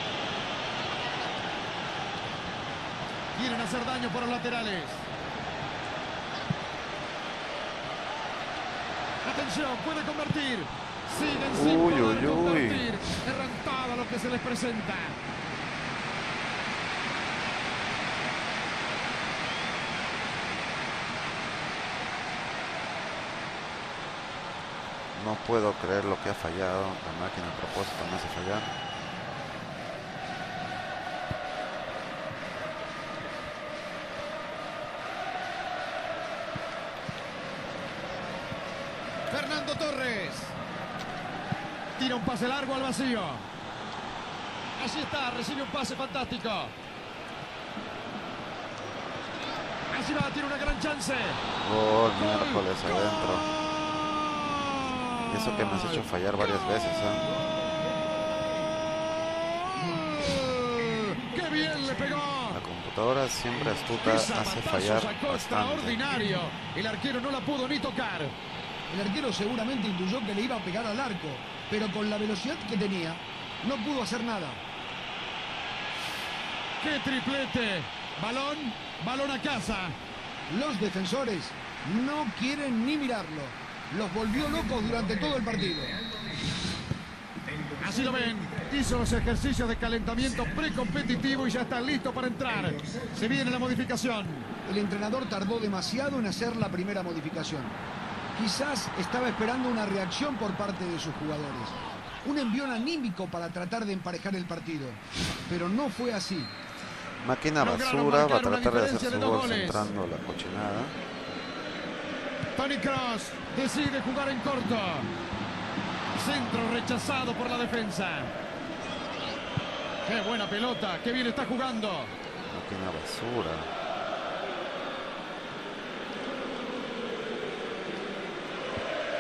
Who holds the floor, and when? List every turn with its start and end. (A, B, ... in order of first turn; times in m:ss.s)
0:03.4-0:05.1 A
0:09.2-0:15.2 A
0:11.5-0:12.9 B
0:25.1-0:28.7 B
0:39.3-0:40.5 A
0:42.0-0:43.5 A
0:44.8-0:46.7 A
0:49.9-0:51.4 A
0:51.6-0:53.5 B
0:52.1-0:56.0 A
0:55.2-0:57.3 B
0:59.2-1:02.6 A
1:02.5-1:06.0 B
1:04.0-1:08.3 A
1:08.9-1:14.6 C
1:16.8-1:20.0 A
1:20.5-1:26.0 C
1:27.8-1:34.5 A
1:34.6-1:37.8 C
1:38.3-1:46.5 C
1:47.2-1:50.9 B
1:47.6-1:49.9 A
1:52.6-1:55.1 A
1:56.1-1:58.3 A
2:00.0-2:02.1 A
2:02.5-2:03.7 B